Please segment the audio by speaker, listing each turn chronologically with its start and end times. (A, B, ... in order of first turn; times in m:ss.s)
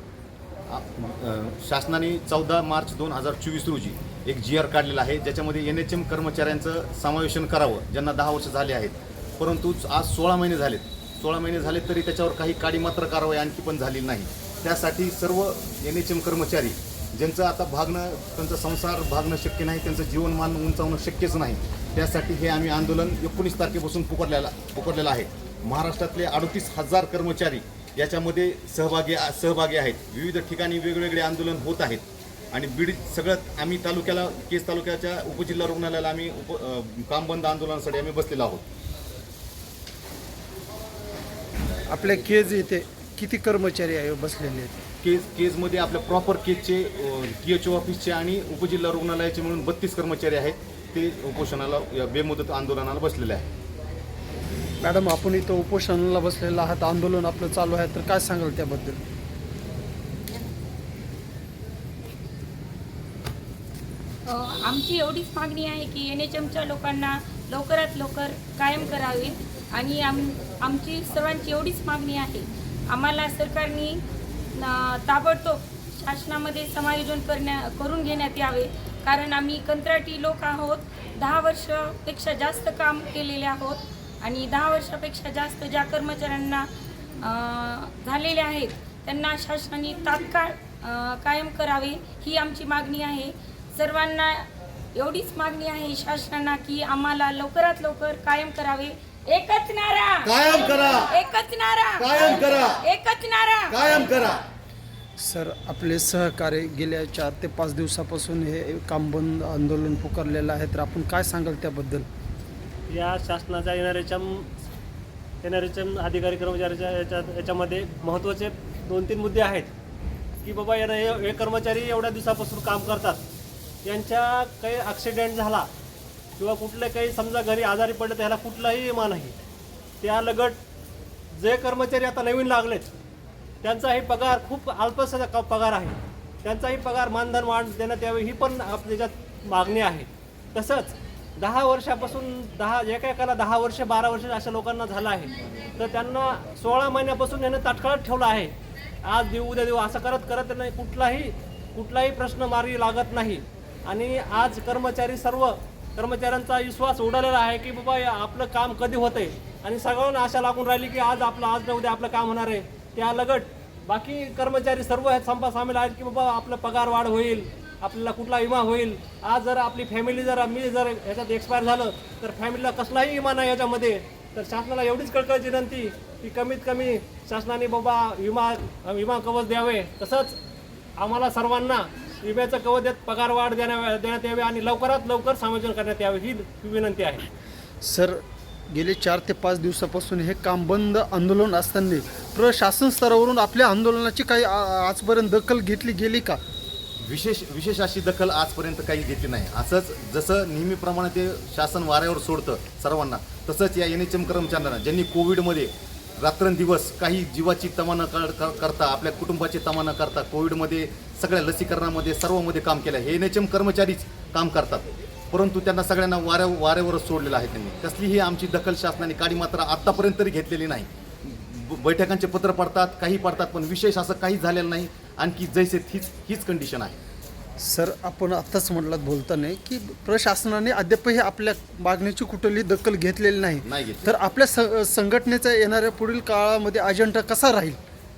0:00.7-0:38.6 A
0:41.9-0:44.8 B
0:45.0-0:53.5 A
0:54.8-0:59.0 B
1:04.2-1:14.0 C
1:14.5-1:26.7 C
1:27.2-1:43.9 C
1:40.2-1:41.2 A
1:42.0-1:42.8 A
1:43.7-1:44.4 A
1:45.2-1:52.1 B
1:52.9-1:54.5 D
1:55.4-1:59.7 D
2:00.4-2:03.2 D
2:03.8-2:05.7 D
2:06.4-2:09.3 D
2:10.0-2:10.6 D
2:11.4-2:12.9 D
2:13.6-3:00.4 D
3:01.0-3:07.3 D
3:07.8-3:16.4 B
3:17.0-3:47.0 A
3:47.6-3:57.8 B
3:53.6-3:54.1 A